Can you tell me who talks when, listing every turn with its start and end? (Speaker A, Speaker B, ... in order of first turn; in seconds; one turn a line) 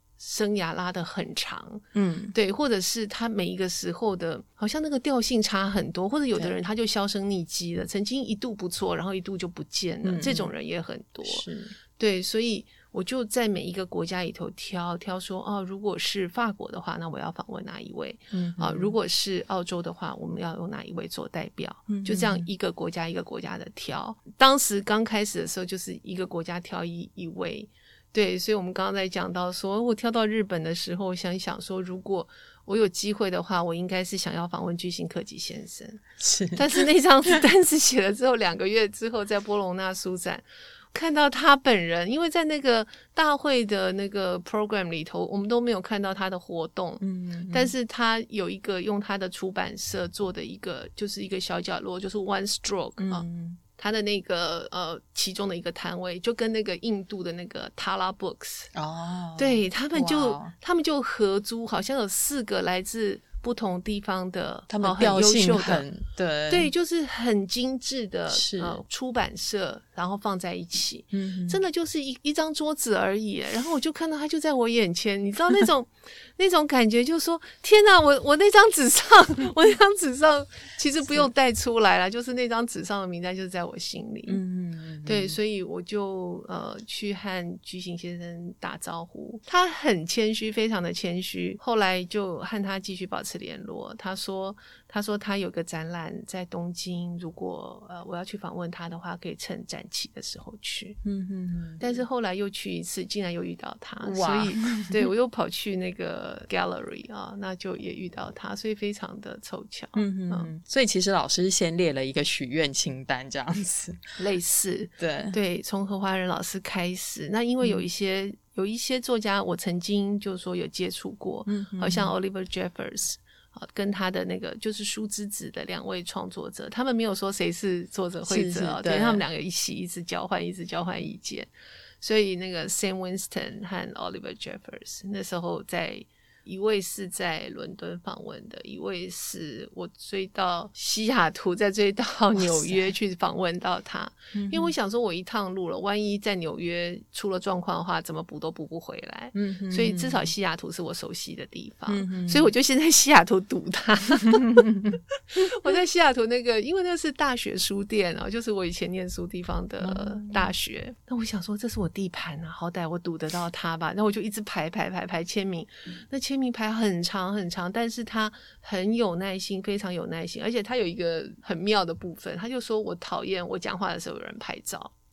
Speaker A: 0.2-11.4
Speaker B: 1.9-2.3
Speaker B: 10.0-10.5
Speaker B: 11.2-11.7
Speaker A: 12.0-36.0
Speaker B: 18.3-18.9
Speaker B: 21.9-22.5
Speaker B: 36.2-36.8
Speaker A: 36.5-58.7
Speaker B: 47.0-47.7
Speaker B: 53.0-53.6
Speaker B: 58.7-60.5
Speaker A: 59.4-65.8
Speaker B: 64.7-66.7
Speaker A: 66.5-84.4
Speaker B: 68.3-68.8
Speaker B: 71.1-71.6
Speaker B: 84.3-85.4
Speaker A: 85.0-101.0
Speaker B: 101.0-102.0
Speaker A: 101.8-110.5
Speaker B: 104.0-105.1
Speaker B: 109.9-114.0
Speaker A: 114.2-131.5
Speaker B: 115.0-115.4
Speaker B: 117.6-117.8
Speaker B: 121.5-122.1
Speaker B: 128.2-129.2
Speaker A: 132.0-154.7
Speaker B: 142.3-142.9
Speaker B: 144.3-144.7
Speaker B: 149.3-150.3
Speaker B: 151.9-152.5
Speaker B: 154.3-155.0
Speaker A: 155.3-174.9
Speaker B: 159.8-160.5